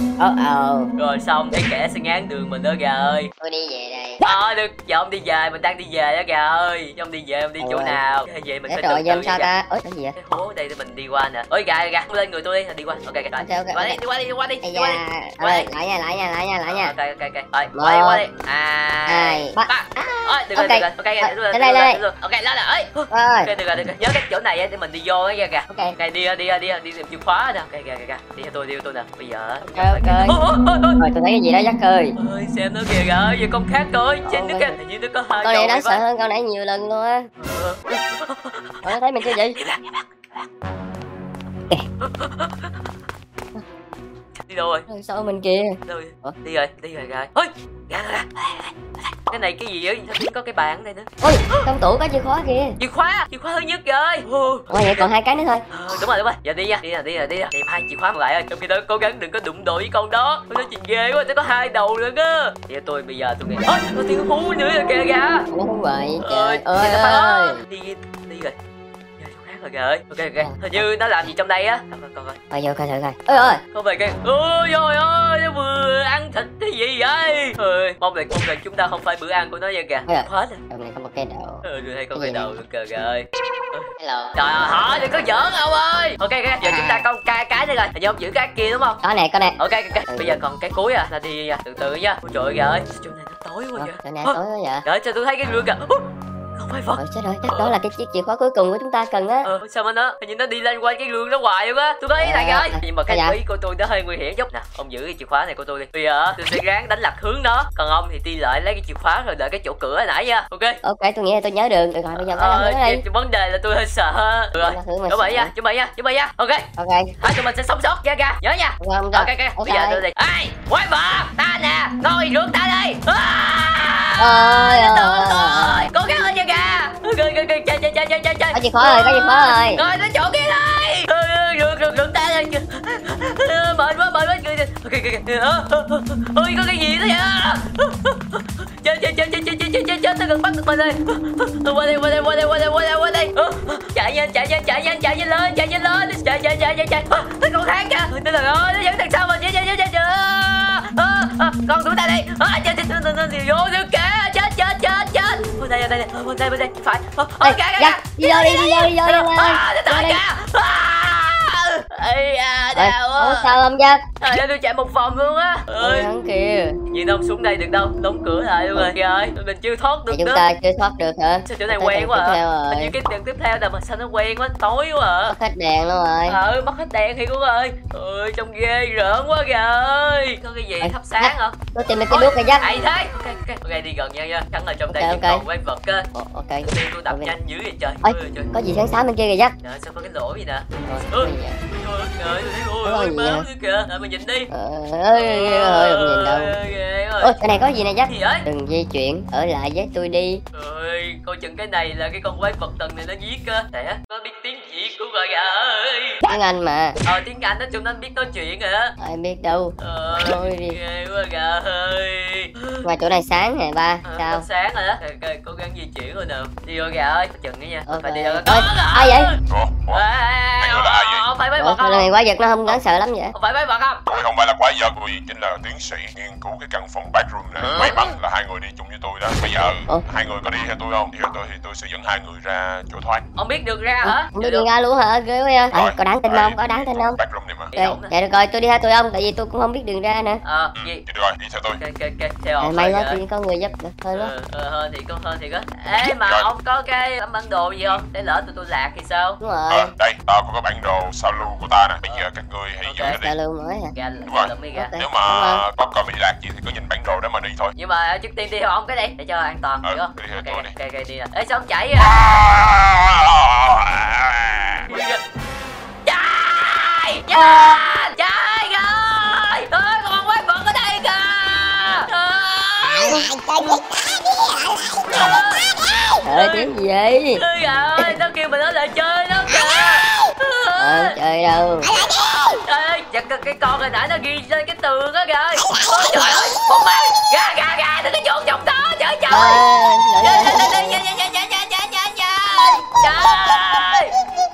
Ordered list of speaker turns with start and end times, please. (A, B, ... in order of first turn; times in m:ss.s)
0:00.2-0:00.9 A
0:01.0-0:03.3 B
0:03.4-0:04.2 A
0:04.2-0:09.5 B
0:07.6-0:08.0 A
0:08.7-0:10.2 A
0:10.2-0:15.7 B
0:13.4-0:14.0 A
0:14.6-0:16.9 A
0:16.7-0:31.0 B
0:17.7-0:18.2 A
0:19.1-0:22.0 A
0:23.1-0:23.5 A
0:25.7-0:26.0 A
0:29.6-0:30.4 A
0:31.0-0:32.2 A
0:32.2-0:36.0 B
0:34.3-0:34.8 A
0:35.4-0:37.3 A
0:37.4-0:38.9 B
0:38.8-0:39.6 A
0:39.6-0:40.4 B
0:42.0-0:42.8 B
0:44.4-0:44.9 B
0:44.9-0:46.4 A
0:45.9-0:48.7 B
0:49.3-0:51.7 B
0:51.2-0:52.8 A
0:52.8-0:55.1 B
0:54.7-0:55.7 A
0:55.7-1:05.5 B
1:05.5-1:07.6 A
1:06.2-1:08.6 B
1:09.2-1:12.4 B
1:10.4-1:10.8 A
1:12.5-1:13.6 A
1:13.3-1:20.6 B
1:20.1-1:21.6 A
1:21.6-1:29.0 B
1:22.2-1:22.5 A
1:24.0-1:24.3 A
1:26.6-1:27.1 A
1:29.0-1:30.4 A
1:29.6-1:37.7 B
1:33.8-1:34.8 A
1:37.0-1:39.5 A
1:39.4-1:50.8 B
1:42.2-1:43.4 A
1:50.8-1:53.0 A
1:52.2-1:56.7 B
1:54.6-1:55.5 A
1:56.8-1:57.1 A
1:57.2-2:43.6 B
1:58.8-2:00.0 A
2:04.2-2:05.9 A
2:08.5-2:09.8 A
2:37.4-2:40.2 A
2:42.8-2:44.0 A
2:44.2-2:46.1 B
2:45.8-2:46.8 A
2:46.9-2:50.4 B
2:50.1-2:52.9 A
2:51.5-2:55.4 B
2:55.3-2:56.4 A
2:56.3-3:01.6 B
3:00.8-3:02.6 A
3:02.1-3:06.1 B
3:04.9-3:05.4 A
3:06.1-3:07.3 A
3:06.6-3:08.5 B
3:08.0-3:09.6 A
3:09.6-3:14.5 B
3:10.9-3:11.6 A
3:12.8-3:13.5 A
3:14.5-3:16.6 A
3:15.1-3:17.4 B
3:17.2-3:20.4 A
3:18.1-3:18.4 B
3:20.5-3:26.2 B
3:26.3-3:27.0 A
3:27.0-3:28.9 B
3:29.0-3:30.8 A
3:29.8-3:32.8 B
3:32.8-3:34.5 A
3:34.0-3:39.4 B
3:37.9-3:39.3 A
3:39.5-3:40.0 C
3:39.9-3:42.1 B
3:40.6-3:41.3 C
3:41.6-3:43.3 A
3:43.3-3:44.0 B
3:44.1-3:53.2 C
3:47.7-3:48.1 B
3:53.4-3:54.7 B
3:54.0-3:57.2 A
3:55.8-3:56.6 C
3:57.2-3:57.7 C
3:57.7-3:58.1 B
3:57.8-4:00.4 A
4:00.4-4:01.0 B
4:00.8-4:01.8 C
4:01.8-4:03.2 B
4:02.6-4:04.3 A
4:04.1-4:09.4 B
4:06.0-4:06.5 C
4:09.4-4:09.9 A
4:09.7-4:13.3 C
4:12.8-4:13.2 B
4:13.1-4:13.9 A
4:14.0-4:14.9 B
4:14.3-4:17.7 C
4:14.7-4:15.6 A
4:17.8-4:22.4 B
4:19.8-4:20.7 C
4:22.1-4:24.6 C
4:24.9-4:25.2 B
4:26.1-4:33.3 B
4:27.3-4:27.8 A
4:35.1-4:36.7 B
4:36.2-4:37.4 A
4:37.4-4:41.2 B
4:40.8-4:41.9 A
4:41.9-4:49.6 B
4:49.3-4:51.0 A
4:50.2-4:54.1 B